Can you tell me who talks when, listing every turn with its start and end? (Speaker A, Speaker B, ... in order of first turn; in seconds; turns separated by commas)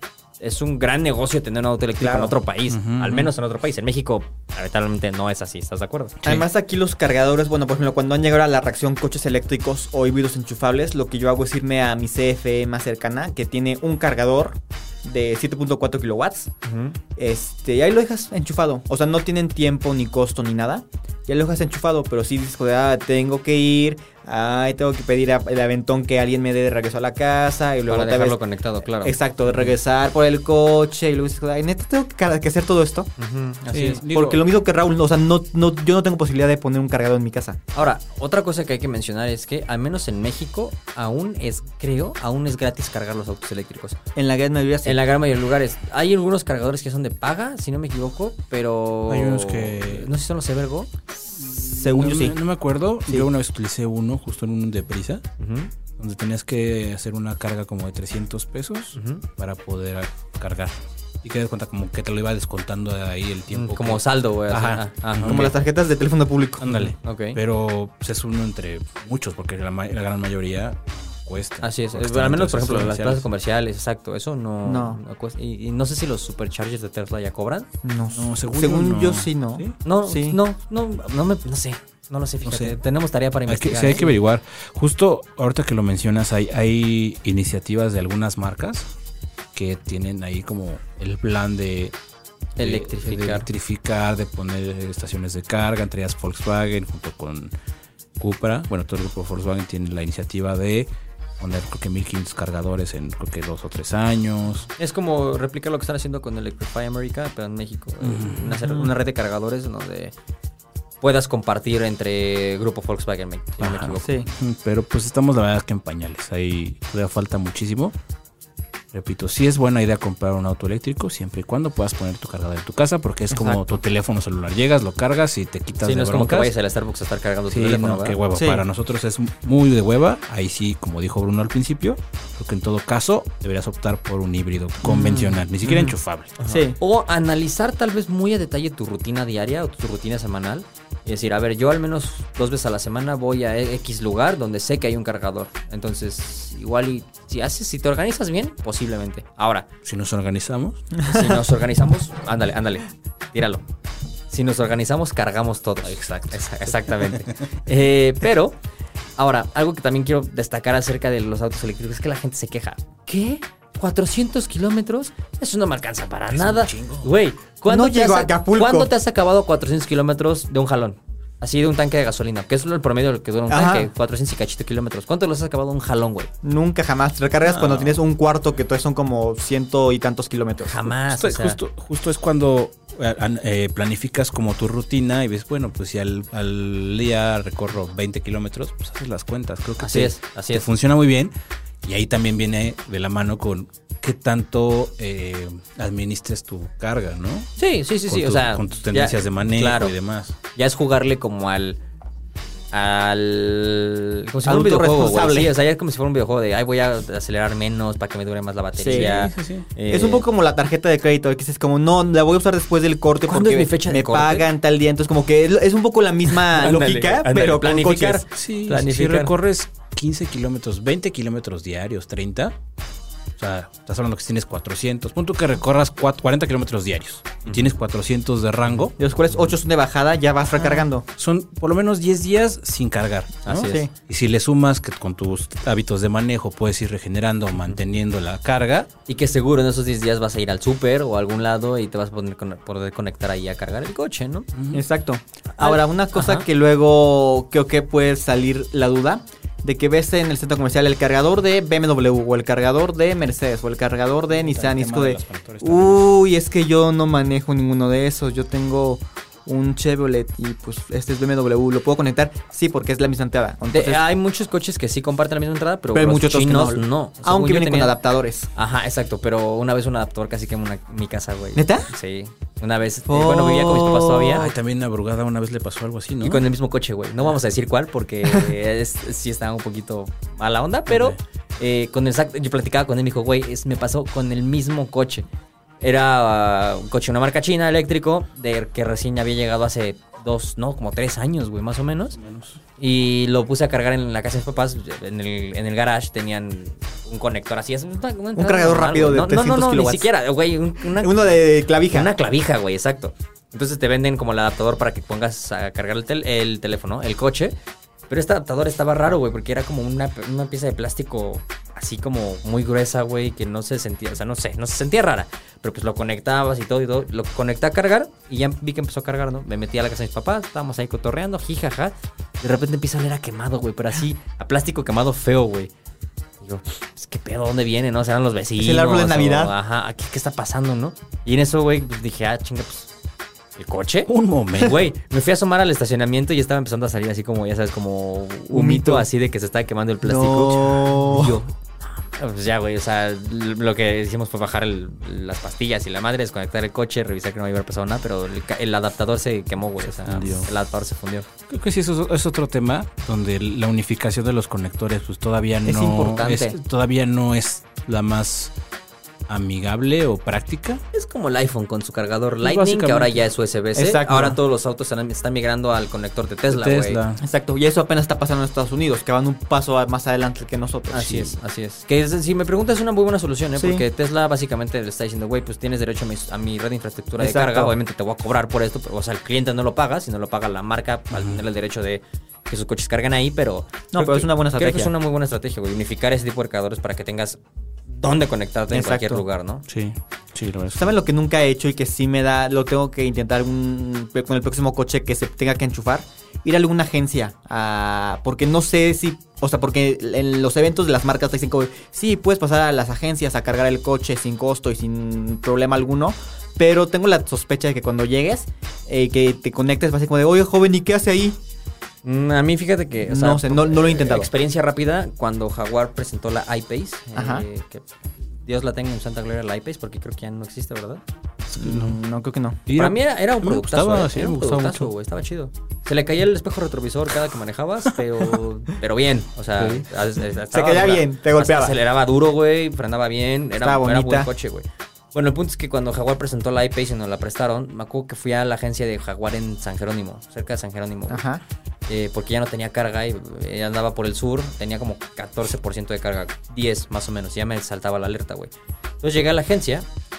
Speaker A: 0.4-6.2, Speaker B: 2.0-2.3, Speaker C: 2.7-3.3, Speaker B: 6.2-16.5, Speaker A: 16.6-17.0, Speaker B: 17.1-28.4, Speaker A: 27.9-29.7, Speaker B: 29.0-33.1, Speaker A: 33.2-34.0, Speaker C: 33.7-34.5, Speaker B: 34.1-37.6, Speaker A: 37.7-44.0, Speaker B: 44.1-45.0, Speaker A: 44.8-50.9, Speaker C: 49.1-50.1, Speaker C: 51.4-55.2, Speaker B: 51.4-52.4, Speaker A: 55.4-55.7, Speaker C: 56.0-65.5, Speaker A: 58.9-59.2, Speaker A: 63.5-65.5, Speaker B: 65.2-66.7, Speaker C: 66.6-73.3, Speaker A: 66.7-67.4, Speaker A: 71.6-77.7, Speaker B: 74.6-75.0, Speaker B: 77.8-80.4, Speaker C: 78.1-79.8, Speaker A: 79.8-84.2, Speaker C: 82.4-82.8, Speaker C: 83.5-88.9, Speaker C: 89.5-92.0, Speaker A: 92.6-93.5, Speaker C: 92.6-97.5, Speaker C: 98.2-104.7, Speaker A: 104.8-110.1, Speaker C: 108.0-108.7, Speaker A: 111.0-114.1, Speaker C: 113.6-118.0, Speaker B: 114.0-114.3, Speaker C: 118.9-126.5, Speaker B: 123.3-123.7, Speaker A: 125.8-128.2, Speaker C: 127.5-136.3, Speaker B: 128.3-128.6, Speaker B: 134.9-135.9, Speaker A: 136.4-149.7, Speaker B: 136.5-136.8, Speaker C: 149.8-150.8, Speaker A: 151.0-153.6, Speaker A: 154.3-158.6, Speaker C: 155.8-157.3, Speaker A: 159.2-176.3, Speaker C: 166.3-167.1, Speaker B: 167.7-168.9, Speaker B: 173.5-173.9, Speaker B: 176.4-180.9, Speaker C: 177.4-178.0, Speaker A: 180.6-181.6, Speaker C: 181.1-191.3, Speaker A: 189.8-190.7, Speaker C: 191.8-197.5, Speaker A: 197.6-199.9, Speaker C: 198.1-200.3, Speaker A: 200.5-201.8, Speaker A: 202.7-210.3, Speaker B: 204.4-205.5, Speaker B: 208.8-209.2, Speaker C: 208.9-209.7, Speaker B: 209.9-218.2, Speaker A: 213.2-214.5, Speaker A: 216.3-219.3, Speaker C: 218.3-222.6, Speaker C: 223.3-228.9, Speaker A: 227.4-227.7, Speaker B: 229.0-231.1, Speaker C: 231.2-238.9, Speaker A: 233.4-233.8, Speaker B: 233.5-233.9, Speaker A: 239.1-244.5, Speaker C: 244.5-244.8, Speaker B: 244.7-264.0, Speaker A: 245.5-246.4, Speaker C: 254.3-256.1, Speaker A: 263.7-267.9, Speaker B: 265.9-268.5, Speaker A: 268.5-274.5, Speaker B: 271.6-271.9, Speaker B: 273.1-274.4, Speaker C: 274.3-276.4, Speaker A: 276.2-285.3, Speaker C: 280.9-281.2, Speaker A: 285.8-292.2, Speaker C: 292.1-292.6, Speaker A: 292.8-307.6, Speaker B: 298.4-300.1, Speaker B: 300.9-302.1, Speaker A: 308.1-325.7, Speaker A: 326.4-332.9, Speaker B: 328.6-329.5, Speaker A: 333.6-351.3, Speaker C: 334.1-334.8, Speaker B: 338.5-339.1, Speaker B: 340.0-341.4, Speaker C: 349.8-350.5, Speaker C: 351.5-358.5, Speaker B: 355.6-356.5, Speaker C: 359.3-360.8, Speaker A: 360.9-367.0, Speaker C: 362.4-363.2, Speaker B: 363.7-364.4, Speaker C: 366.5-367.2, Speaker B: 367.2-371.0, Speaker A: 370.9-389.6, Speaker C: 370.9-371.3, Speaker B: 373.6-373.8, Speaker B: 377.2-377.7, Speaker C: 381.1-381.4, Speaker B: 383.9-384.9, Speaker B: 388.7-389.2, Speaker C: 389.7-391.0, Speaker B: 390.7-411.4, Speaker A: 412.0-417.9, Speaker B: 413.1-414.3, Speaker B: 417.1-417.4, Speaker A: 418.4-421.0, Speaker C: 421.5-422.0, Speaker B: 421.6-422.6, Speaker C: 422.7-424.9, Speaker A: 422.7-441.2, Speaker C: 429.6-429.9, Speaker B: 430.5-431.8, Speaker B: 433.6-434.3, Speaker B: 441.1-441.4, Speaker A: 441.9-449.9